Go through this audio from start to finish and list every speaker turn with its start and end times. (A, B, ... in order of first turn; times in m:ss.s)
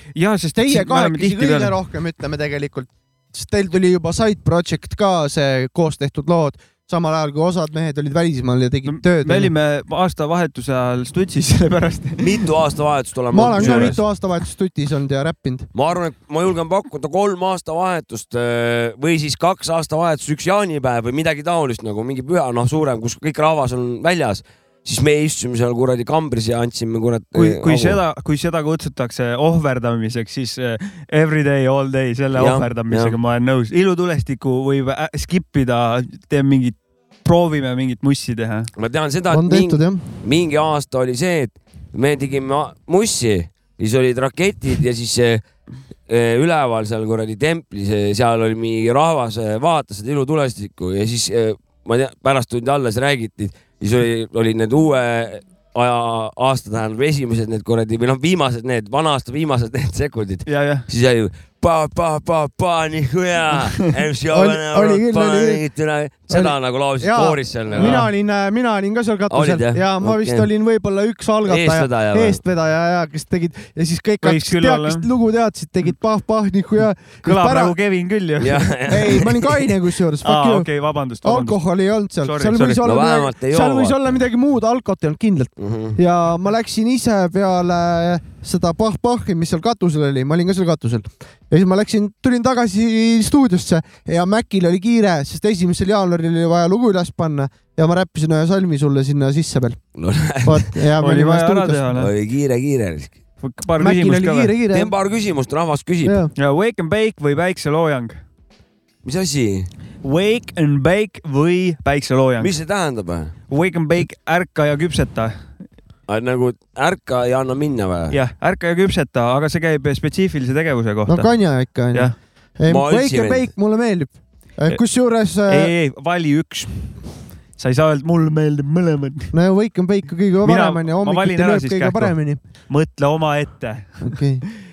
0:00.2-0:01.7 A
0:00.5-0:09.5 B
0:08.8-0:12.5 A
0:12.2-0:14.0 C
0:13.3-0:15.7 B
0:13.6-0:14.0 A
0:15.7-0:28.0 C
0:27.3-0:38.7 A
0:32.4-0:33.2 C
0:38.8-0:45.4 C
0:39.3-0:40.0 B
0:46.1-1:08.0 C
1:00.4-1:00.8 A
1:04.3-1:05.6 B
1:06.3-1:17.7 B
1:07.8-1:08.1 A
1:09.3-1:10.5 C
1:11.4-1:12.4 C
1:14.2-1:15.1 A
1:17.2-1:18.7 A
1:18.4-1:19.7 C
1:18.9-1:20.7 B
1:20.2-1:21.6 A
1:21.2-1:39.8 B
1:22.2-1:22.8 A
1:22.8-1:24.2 C
1:25.6-1:26.0 C
1:40.0-1:40.8 C
1:40.4-1:41.8 B
1:41.0-1:42.1 A
1:41.9-1:43.1 C
1:43.4-1:44.5 A
1:43.8-1:44.9 B
1:44.7-1:46.2 C
1:46.0-1:46.3 B
1:46.4-1:48.2 A
1:49.0-1:49.7 C
1:50.0-1:52.5 A
1:52.4-1:53.3 C
1:53.5-1:55.4 A
1:56.1-1:58.1 C
1:58.1-2:01.3 A
2:01.1-2:05.7 B
2:02.7-2:03.5 C
2:05.5-2:07.0 A
2:07.6-2:09.3 A
2:09.3-2:12.4 B
2:10.4-2:12.1 A
2:12.7-2:14.2 A
2:14.0-2:14.4 B